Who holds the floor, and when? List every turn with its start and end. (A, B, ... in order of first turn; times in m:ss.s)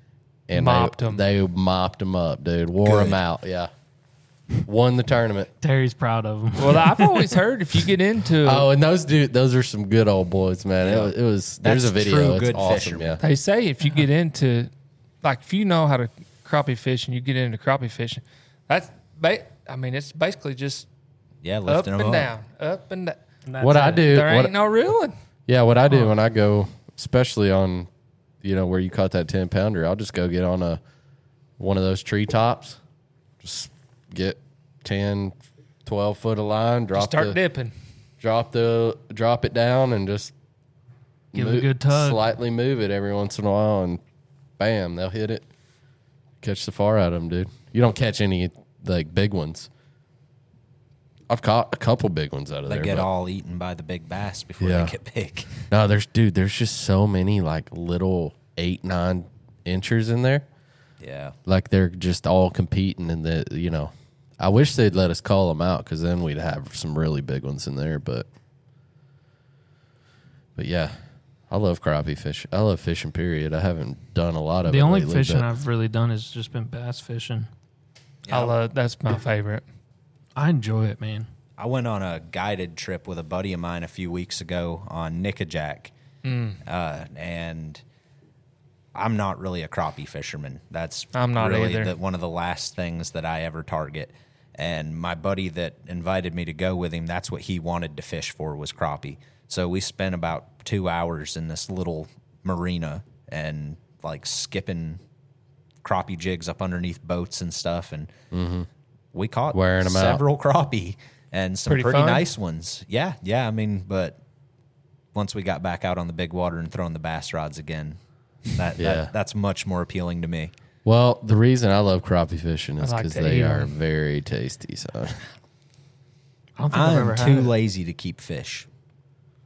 0:00.5-0:03.7 A
0:00.5-0:01.2 B
0:02.8-0:03.2 C
0:04.6-0:05.5 A
0:05.6-0:07.0 D
0:06.6-0:08.7 B
0:08.4-0:13.2 A
0:10.8-0:13.2 C
0:13.2-0:14.7 B
0:15.2-0:20.9 B
0:21.4-0:22.3 C
0:21.7-0:25.1 B
0:23.5-0:24.0 D
0:23.6-0:24.5 A
0:25.5-0:27.9 A
0:28.4-0:30.8 A
0:31.6-0:32.8 A
0:33.4-0:37.4 A
0:36.9-0:37.7 B
0:38.2-0:40.3 A
0:41.3-0:44.0 A
0:41.3-0:42.2 D
0:44.6-0:45.4 A
0:46.4-0:49.7 A
0:51.3-0:53.1 A
0:52.7-0:55.7 C
0:54.6-0:54.9 A
0:55.7-1:00.4 A
1:01.0-1:01.4 C
1:01.4-1:08.3 A
1:10.6-1:10.9 A
1:11.5-1:15.5 A
1:14.7-1:17.5 D
1:18.2-1:18.6 C
1:18.3-1:19.6 B
1:20.4-1:21.3 D
1:21.6-1:25.9 C
1:26.2-1:26.6 B
1:26.6-1:27.8 C
1:28.9-1:45.0 C
1:31.1-1:31.9 B
1:45.8-1:48.1 C
1:48.3-1:48.7 A
1:49.1-1:54.2 C
1:49.5-1:50.2 A
1:51.7-1:52.2 B
1:55.1-1:58.0 C
1:58.5-2:00.5 C
1:58.8-1:59.1 A
2:00.8-2:05.2 A
2:02.8-2:03.7 B
2:06.6-2:07.5 D
2:06.7-2:08.7 C